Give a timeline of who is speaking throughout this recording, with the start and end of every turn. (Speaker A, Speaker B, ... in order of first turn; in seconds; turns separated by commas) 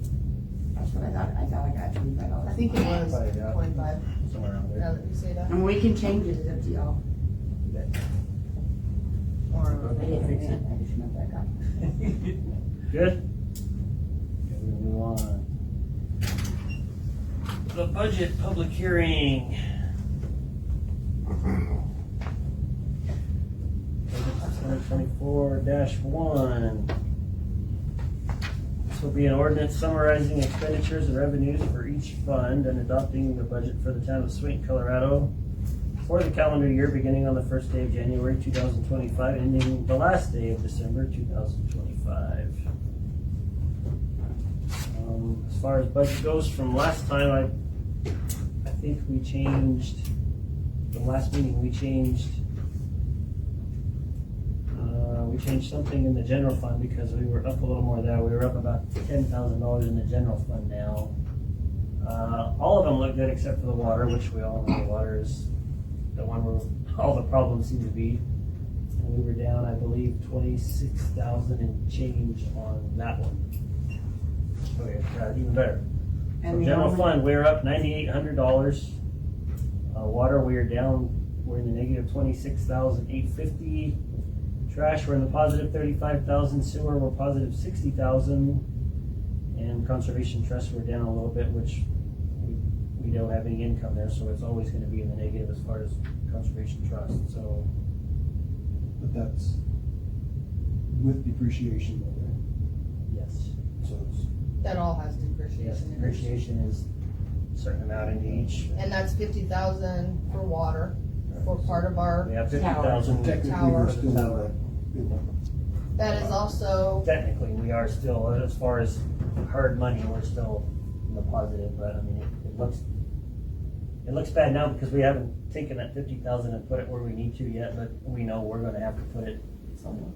Speaker A: 0.8-2.9, Speaker B: 2.4-4.1, Speaker C: 3.0-4.9, Speaker B: 4.8-5.6, Speaker A: 5.5-7.0, Speaker B: 9.5-10.3, Speaker C: 9.7-10.6, Speaker A: 10.0-11.8, Speaker C: 12.9-13.2, Speaker C: 14.4-15.5, Speaker C: 17.7-19.6, Speaker C: 24.1-26.9, Speaker C: 28.9-35.3, Speaker C: 36.0-42.6, Speaker C: 44.9-47.5, Speaker C: 48.6-50.1, Speaker C: 50.9-52.4, Speaker C: 54.7-61.1, Speaker C: 62.0-65.5, Speaker C: 66.2-68.2, Speaker C: 69.0-73.4, Speaker C: 74.8-75.8, Speaker A: 76.4-77.2, Speaker C: 76.5-79.0, Speaker C: 79.9-84.0, Speaker C: 84.7-88.6, Speaker C: 89.5-97.7, Speaker D: 99.0-99.6, Speaker D: 100.9-102.4, Speaker C: 103.1-103.5, Speaker D: 103.8-104.3, Speaker B: 104.6-106.4, Speaker C: 105.6-106.8, Speaker C: 107.5-108.7, Speaker D: 108.2-108.8, Speaker B: 108.8-112.3, Speaker D: 111.3-111.8, Speaker C: 112.2-114.5, Speaker A: 112.5-113.2, Speaker D: 113.0-115.2, Speaker B: 113.3-114.0, Speaker B: 116.0-117.1, Speaker C: 117.0-122.8, Speaker C: 124.0-129.4